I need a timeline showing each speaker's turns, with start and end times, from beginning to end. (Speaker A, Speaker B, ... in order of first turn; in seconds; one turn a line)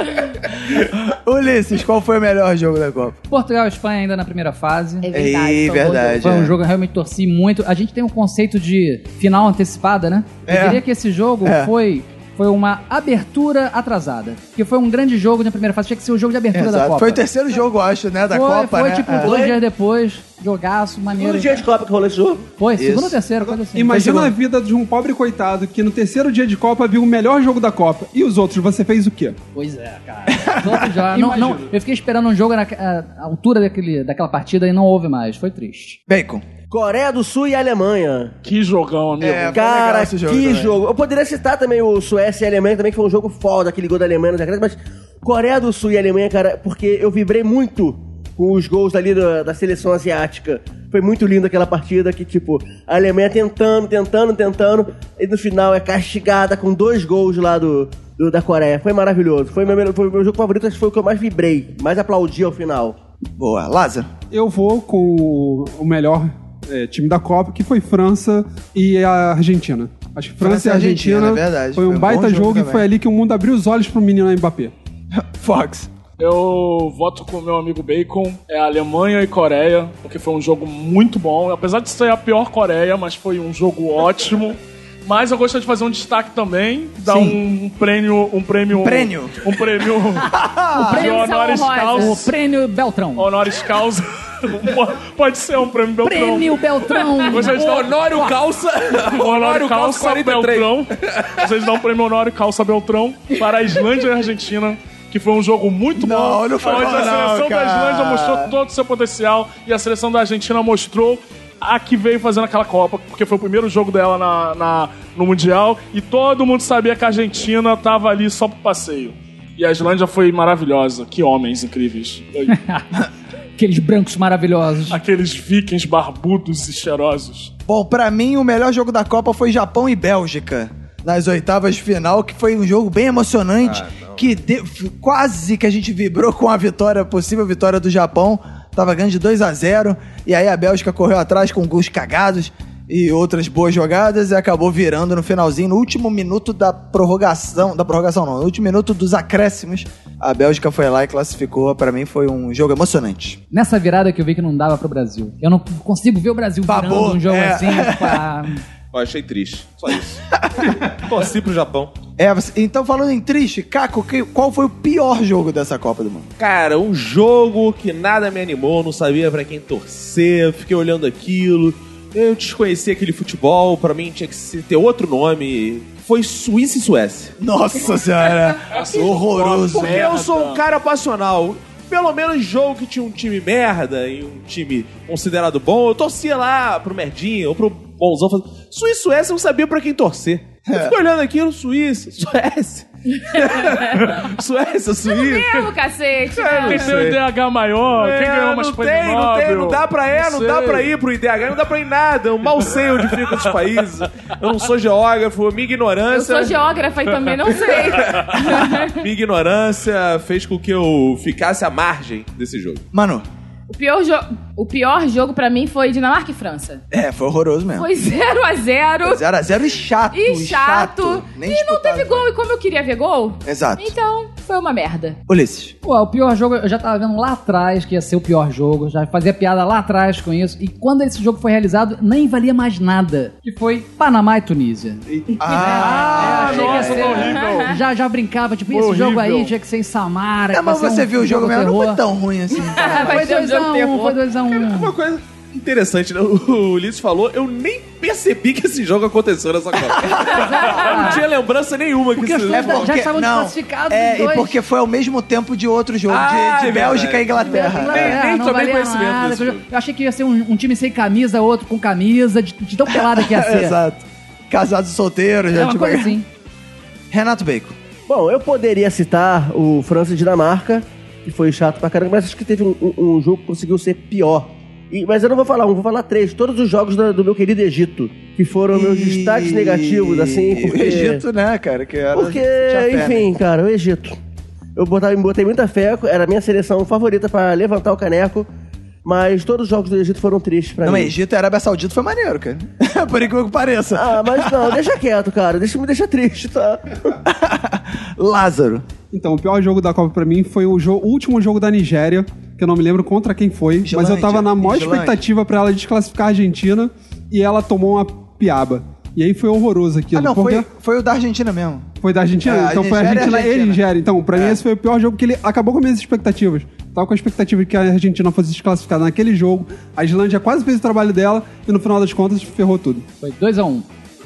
Speaker A: 0.7-3.2
Speaker B: 3.3-5.1
Speaker C: 5.0-6.2
Speaker A: 5.1-6.6
Speaker B: 6.1-17.2
Speaker A: 10.5-10.8
Speaker A: 11.4-11.7
Speaker A: 16.5-19.4
Speaker B: 18.3-21.6
Speaker D: 19.2-19.6
Speaker D: 21.2-22.4
Speaker B: 22.6-24.1
Speaker A: 22.8-23.2
Speaker E: 23.4-29.4
Speaker A: 23.9-24.3
Speaker B: 29.6-36.0
Speaker A: 30.3-30.9
Speaker E: 31.1-31.7
Speaker A: 36.1-36.5
Speaker D: 36.7-38.4
Speaker F: 38.4-39.6
Speaker A: 39.2-40.8
Speaker D: 39.5-63.0
Speaker A: 63.4-64.1
Speaker E: 64.3-74.7
Speaker A: 70.4-72.9
Speaker A: 75.1-75.9
Speaker F: 76.2-90.4
Speaker A: 87.0-87.4
Speaker A: 88.7-89.6
Speaker A: 90.3-91.0
Speaker B: 90.7-91.1
Speaker C: 90.9-92.2
Speaker F: 90.9-92.3
Speaker B: 91.9-93.3
Speaker F: 93.2-96.6
Speaker B: 96.0-98.3
Speaker F: 97.2-98.2
Speaker G: 97.3-101.5
Speaker F: 99.0-122.5
Speaker A: 106.0-108.6
Speaker B: 122.5-122.8
Speaker B: 123.6-125.0
Speaker F: 124.9-127.5
Speaker A: 127.7-153.4
Speaker G: 133.6-134.3
Speaker B: 153.5-158.6
Speaker A: 156.7-158.2
Speaker G: 158.9-160.2
Speaker A: 160.4-160.7
Speaker G: 160.8-161.9
Speaker A: 162.2-166.3
Speaker G: 166.4-177.3
Speaker A: 177.4-180.0
Speaker F: 178.7-180.6
Speaker G: 179.7-195.7
Speaker A: 190.7-190.9
Speaker C: 193.2-194.1
Speaker C: 195.1-197.0
Speaker G: 196.3-197.2
Speaker F: 196.6-200.9
Speaker G: 197.9-206.8
Speaker C: 206.1-209.0
Speaker G: 207.4-212.8
Speaker A: 212.9-213.2
Speaker C: 213.7-216.8
Speaker A: 216.9-217.9
Speaker C: 217.8-219.2
Speaker A: 219.0-222.3
Speaker C: 220.1-225.2
Speaker A: 223.5-223.9
Speaker A: 225.3-225.7
Speaker B: 225.8-242.0
Speaker E: 235.1-235.4
Speaker A: 235.4-237.2
Speaker F: 236.0-237.8
Speaker C: 237.2-237.8
Speaker F: 238.7-239.6
Speaker A: 240.5-243.2
Speaker C: 242.5-244.2
Speaker B: 242.8-244.9
Speaker G: 244.5-253.0
Speaker A: 249.9-250.4
Speaker B: 250.3-251.2
Speaker B: 252.2-254.6
Speaker A: 252.5-258.2
Speaker G: 256.1-259.6
Speaker B: 257.4-263.8
Speaker A: 262.9-266.2
Speaker B: 265.5-266.3
Speaker A: 267.1-267.8
Speaker D: 268.1-281.2
Speaker A: 278.7-283.3
Speaker D: 282.1-284.2
Speaker D: 284.8-288.5
Speaker D: 289.1-291.1
Speaker A: 290.8-294.8
Speaker D: 294.0-297.1
Speaker A: 297.2-298.9
Speaker E: 299.1-310.7
Speaker A: 303.8-305.2
Speaker A: 310.1-311.9
Speaker E: 312.0-323.1
Speaker A: 312.4-313.8
Speaker A: 314.3-314.6
Speaker B: 323.2-323.9